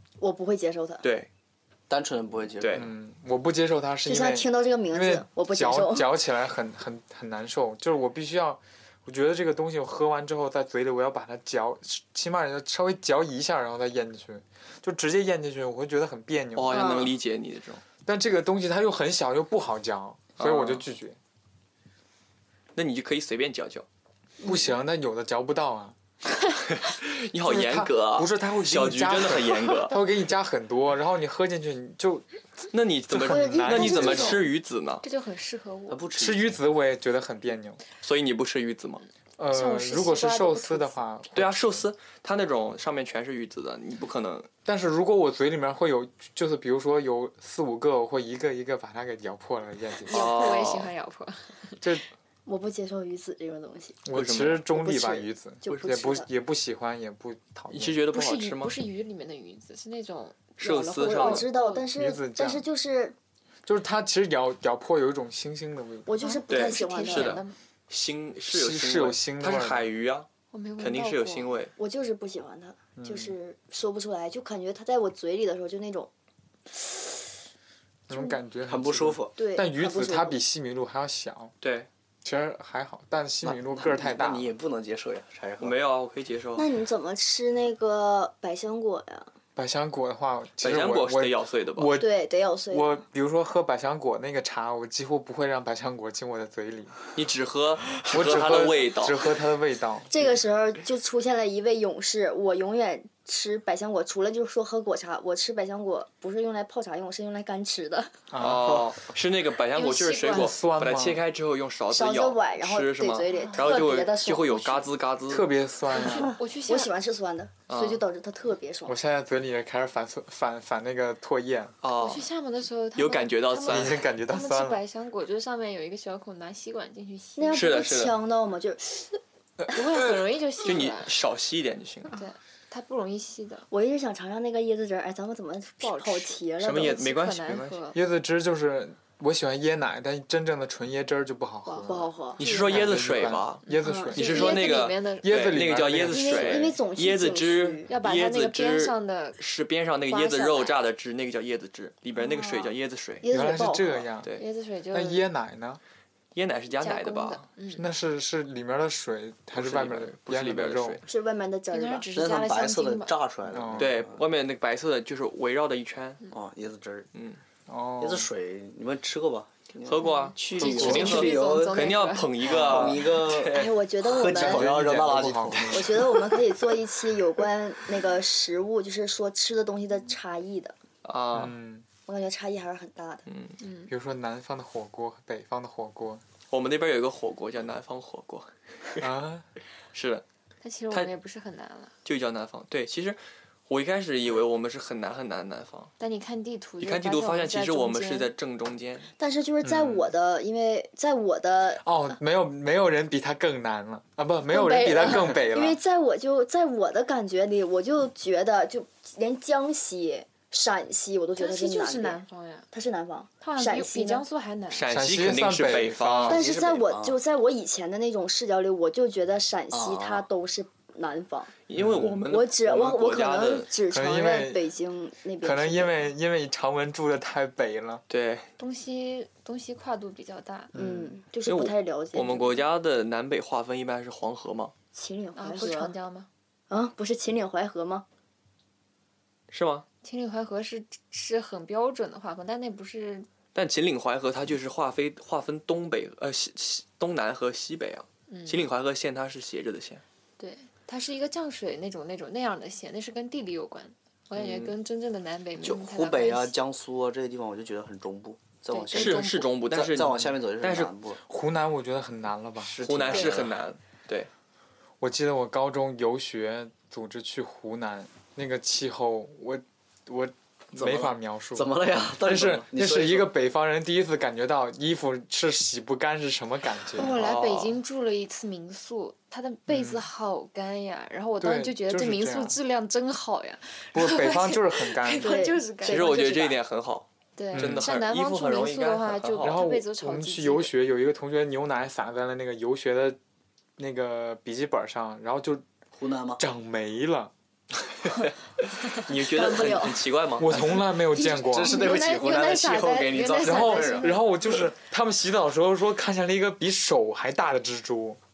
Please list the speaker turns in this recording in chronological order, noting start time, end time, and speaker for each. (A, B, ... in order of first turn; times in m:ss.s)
0:00.2-0:01.0 A
0:01.0-0:01.3 B
0:01.9-0:02.9 C
0:02.6-0:02.9 B
0:02.7-0:17.0 D
0:04.0-0:06.1 A
0:16.5-0:17.8 B
0:16.7-0:17.1 A
0:18.0-0:21.2 D
0:20.4-0:20.8 B
0:22.8-0:23.8 B
0:24.4-0:24.7 A
0:24.4-0:26.0 D
0:26.6-0:29.9 B
0:27.4-0:32.2 D
0:32.7-0:35.0 B
0:33.1-0:34.4 D
0:33.2-0:34.4 A
0:35.0-0:36.0 E
0:35.9-0:36.6 C
0:36.1-0:37.8 D
0:38.0-0:39.0 B
0:39.4-0:41.8 D
0:39.5-0:41.0 E
0:41.3-0:44.5 B
0:44.6-0:50.5 D
0:50.0-0:51.8 E
0:50.1-0:50.9 B
0:51.8-0:52.0 D
0:52.4-0:54.0 A
0:54.0-0:58.0 D
0:54.1-0:54.6 B
0:54.7-0:56.3 A
0:57.7-0:58.8 B
0:58.1-1:01.9 E
1:00.6-1:01.5 B
1:01.0-1:03.1 A
1:01.9-1:02.6 D
1:03.6-1:06.1 D
1:06.0-1:07.4 A
1:06.2-1:07.6 E
1:06.5-1:10.3 B
1:08.5-1:09.9 D
1:10.5-1:11.5 E
1:10.8-1:11.7 B
1:11.8-1:16.1 A
1:13.0-1:13.4 D
1:18.1-1:21.5 D
1:18.6-1:19.4 C
1:19.4-1:20.4 A
1:21.6-1:21.9 B
1:22.2-1:24.5 D
1:23.4-1:25.8 C
1:25.6-1:26.7 B
1:26.6-1:29.3 A
1:29.6-1:32.2 D
1:30.6-1:31.9 B
1:32.0-1:32.9 A
1:32.7-1:37.0 D
1:37.1-1:39.3 B
1:38.0-1:40.1 D
1:40.1-1:48.2 A
1:48.3-1:48.9 D
1:48.4-1:55.5 B
1:49.7-1:50.6 E
1:50.2-1:51.2 D
1:51.9-1:54.9 A
1:53.3-1:54.0 E
1:55.3-1:56.4 D
1:55.9-1:56.9 E
1:56.0-1:59.0 A
1:57.7-1:58.0 B
1:58.8-2:01.7 D
2:01.8-2:02.3 B
2:02.0-2:07.8 E
2:02.9-2:04.0 B
2:03.7-2:04.8 D
2:07.4-2:09.0 A
2:07.5-2:08.1 B
2:09.7-2:11.1 E
2:10.6-2:12.1 B
2:12.1-2:13.7 E
2:13.7-2:17.0 A
2:15.8-2:18.0 E
2:16.6-2:17.8 B
2:17.9-2:24.6 D
2:21.8-2:22.4 A
2:22.4-2:22.9 E
2:22.4-2:33.2 B
2:23.7-2:25.6 E
2:23.8-2:24.7 A
2:25.2-2:26.5 D
2:26.1-2:27.9 A
2:27.9-2:29.4 E
2:30.1-2:30.8 E
2:32.2-2:34.1 A
2:33.3-2:34.3 D
2:34.4-2:35.2 E
2:34.9-2:35.8 D
2:36.3-2:37.4 B
2:36.8-2:37.8 E
2:37.7-2:41.0 D
2:39.5-2:41.0 B
2:41.0-2:42.1 A
2:41.7-2:43.1 E
2:42.1-2:44.2 C
2:43.5-2:43.9 D
2:43.8-2:46.2 B
2:46.3-2:47.1 C
2:47.1-2:47.4 B
2:47.7-2:48.3 D
2:48.0-2:51.9 C
2:49.8-2:53.8 B
2:50.0-2:53.0 E
2:52.4-2:56.3 C
2:53.5-2:54.7 A
2:54.2-2:56.2 D
2:55.7-3:00.7 A
3:01.0-3:01.6 B
3:01.3-3:01.8 D
3:02.0-3:03.2 A
3:03.3-3:03.6 B
3:03.6-3:03.9 E
3:03.9-3:06.2 D
3:06.5-3:09.0 B
3:09.0-3:09.5 D
3:09.9-3:10.2 B
3:10.6-3:11.9 E
3:12.0-3:15.9 B
3:16.0-3:18.3 E
3:16.8-3:19.1 B
3:19.2-3:21.8 A
3:19.6-3:20.1 D
3:21.8-3:25.8 D
3:24.5-3:32.2 A
3:31.4-3:32.7 E
3:32.7-3:34.2 A
3:33.4-3:34.8 E
3:34.7-3:36.4 B
3:34.9-3:36.4 D
3:36.3-3:37.2 C
3:36.3-3:45.9 A
3:39.7-3:40.3 C
3:41.7-3:43.7 B
3:41.7-3:42.1 D
3:43.9-3:44.6 D
3:45.4-3:48.0 D
3:48.1-3:48.5 B
3:48.6-3:50.7 E
3:50.7-3:51.1 D
3:50.7-3:52.6 A
3:51.4-3:54.7 B
3:54.9-3:55.9 A
3:55.4-3:56.3 E
3:56.7-3:58.0 A
3:59.5-3:59.8 B
4:00.0-4:03.3 E
4:03.5-4:10.0 B
4:08.3-4:08.6 E
4:10.4-4:16.5 E
4:14.4-4:14.7 B
4:15.6-4:21.2 C
4:18.7-4:19.5 E
4:18.9-4:20.9 B
4:21.2-4:23.3 D
4:22.6-4:23.5 C
4:22.8-4:24.3 B
4:25.0-4:37.1 D
4:30.7-4:33.3 C
4:36.9-4:46.6 E
4:37.0-4:37.8 B
4:39.7-4:40.1 D
4:41.4-4:42.6 D
4:43.9-4:45.5 D
4:45.2-4:46.1 A
4:45.8-4:49.6 B
4:47.4-4:50.7 E
4:47.5-4:47.9 D
4:49.4-4:53.2 D
4:53.8-4:55.6 D
4:55.9-4:56.4 C
4:56.4-4:57.3 D
4:58.1-5:00.8 B
4:59.0-5:00.1 A
5:00.4-5:01.8 D
5:01.1-5:04.2 E
5:01.2-5:03.6 A
5:01.2-5:04.6 C
5:03.4-5:08.2 D